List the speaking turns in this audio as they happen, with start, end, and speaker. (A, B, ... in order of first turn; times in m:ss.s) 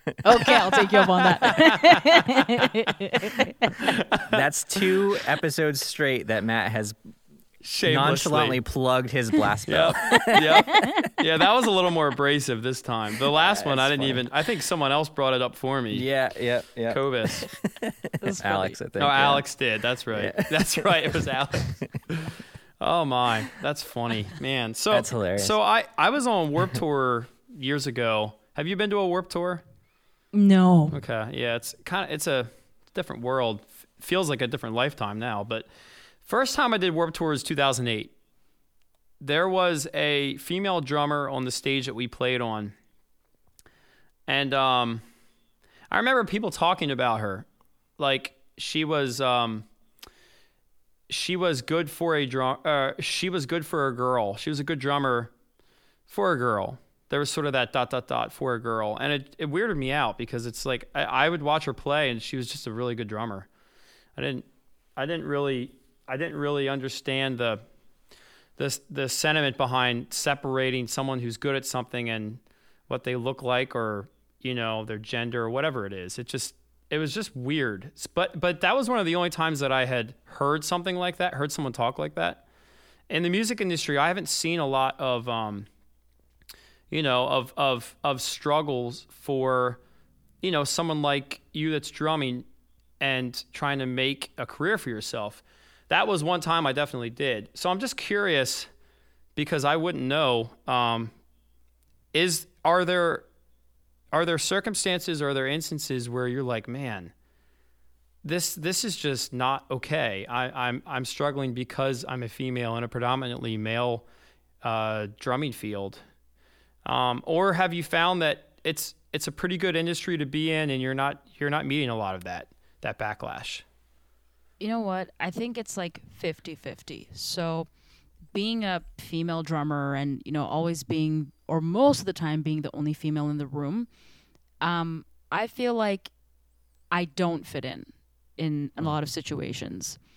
0:00.2-0:03.7 A
0:01.3-0:02.6 B
0:03.8-0:04.4 B
0:04.3-0:07.0 C
0:07.6-0:08.6 B
0:07.9-0:10.6 C
0:09.7-0:16.0 B
0:10.8-0:11.1 A
0:13.3-0:14.3 C
0:15.9-0:19.5 C
0:16.9-0:17.5 B
0:18.2-0:18.8 A
0:19.0-0:29.6 B
0:20.1-0:21.2 C
0:24.9-0:25.6 C
0:30.3-0:31.0 A
0:30.9-0:35.7 B
0:36.2-0:38.1 B
0:39.2-0:42.8 B
0:44.3-0:45.0 B
0:45.9-0:47.5 B
0:48.0-0:49.6 B
0:51.1-0:55.3 B
0:56.1-1:03.5 B
1:04.2-1:04.4 B
1:05.0-1:07.6 B
1:08.6-1:22.4 B
1:23.1-1:25.7 B
1:26.9-1:29.8 B
1:30.4-1:32.4 B
1:33.0-1:38.7 B
1:39.4-1:41.1 B
1:42.1-1:43.3 B
1:44.1-1:47.1 B
1:48.2-1:54.0 B
1:54.6-1:56.0 B
1:56.8-2:03.6 B
2:04.6-2:07.7 A
2:08.3-2:13.9 A
2:14.6-2:16.1 A
2:16.9-2:20.0 A